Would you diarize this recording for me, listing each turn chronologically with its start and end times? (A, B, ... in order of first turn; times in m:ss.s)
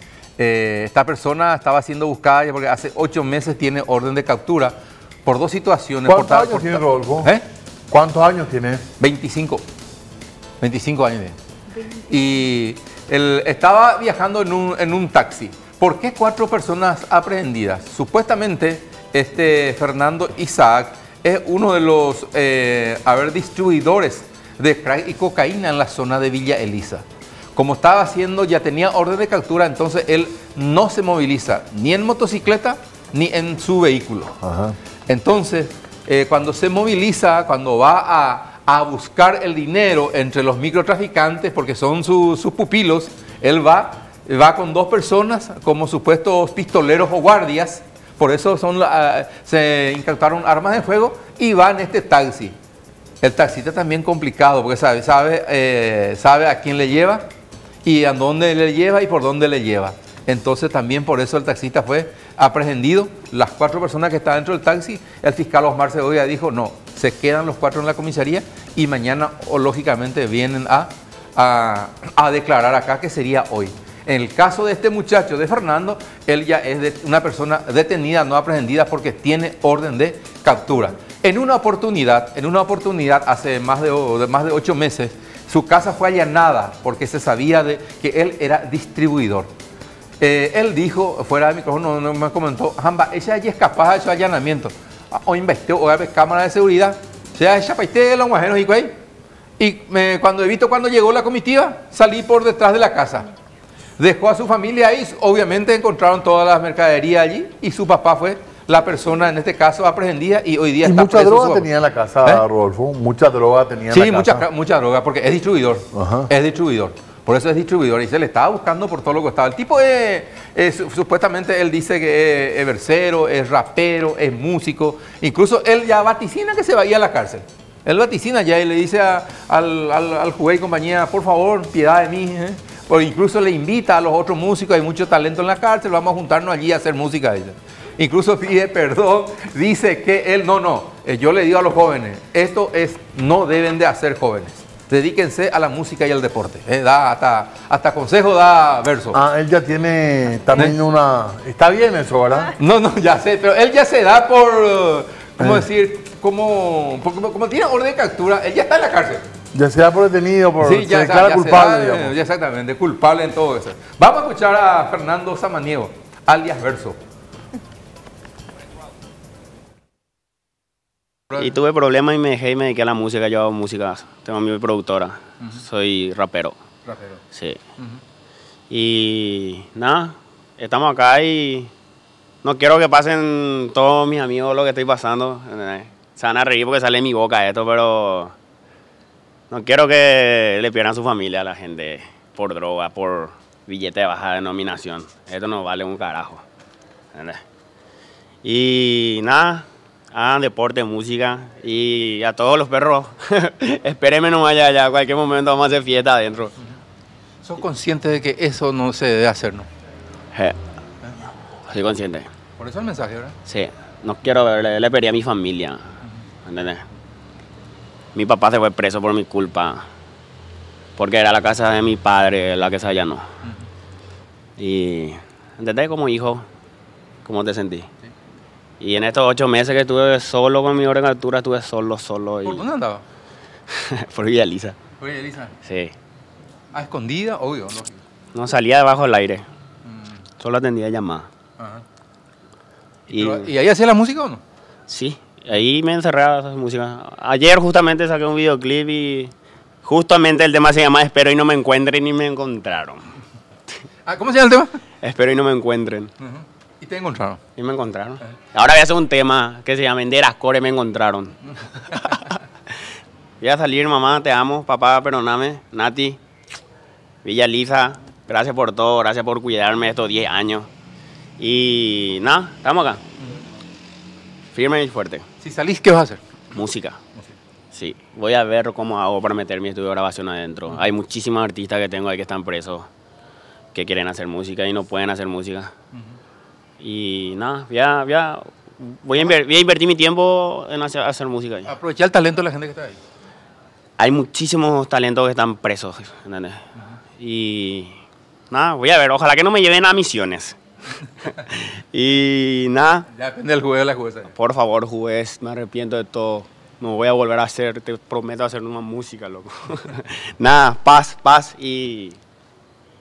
0:00.4-0:07.4 A
0:06.0-0:07.3 B
0:07.9-0:08.8 B
0:09.0-0:09.6 A
0:10.6-0:27.0 A
0:27.5-0:34.4 A
0:34.4-0:34.7 B
0:35.1-0:52.5 A
0:53.2-0:57.2 A
0:57.8-1:29.5 A
1:30.2-1:38.9 A
1:39.6-1:43.3 A
1:44.0-1:51.7 A
1:50.8-1:54.4 B
1:53.9-2:29.2 A
1:55.9-1:56.3 B
2:29.1-2:32.5 B
2:32.6-2:39.2 A
2:39.5-2:42.1 B
2:40.6-2:47.0 A
2:51.3-2:56.5 C
2:56.8-2:57.2 A
2:57.3-2:57.6 C
2:58.7-3:01.7 C
3:02.4-3:08.3 C
3:09.5-3:16.4 C
3:17.1-3:17.4 C
3:18.4-3:26.5 C
3:27.4-3:29.7 A
3:31.7-3:32.3 C
3:32.6-3:33.3 A
3:33.4-3:35.9 C
3:36.4-3:36.8 C
3:38.1-3:39.8 C
3:41.0-3:43.2 C
3:44.6-3:46.4 C
3:47.2-3:47.9 C
3:48.8-3:52.6 C
3:52.4-3:53.0 A
3:53.7-3:54.8 C
3:55.0-3:55.5 A
3:55.6-3:55.9 C
3:56.7-3:58.0 A
3:58.3-3:59.4 C
4:00.4-4:01.3 C
4:01.6-4:01.8 A
4:03.1-4:03.5 C
4:03.1-4:04.4 A
4:04.9-4:09.3 C
4:09.8-4:13.1 C
4:14.0-4:14.8 A
4:15.0-4:16.1 C
4:16.2-4:17.4 A
4:17.6-4:22.3 C
4:23.4-4:26.2 C
4:27.2-4:30.7 C
4:31.4-4:33.0 C
4:34.5-4:35.2 C
4:35.4-4:36.2 A
4:36.5-4:37.0 C
4:37.7-4:42.9 C
4:43.7-4:45.7 C
4:46.8-4:51.7 C
4:51.6-4:53.0 A
4:54.0-4:56.6 C
4:57.2-4:58.0 C
4:58.5-5:03.1 C
5:03.1-5:04.3 A
5:04.3-5:12.2 C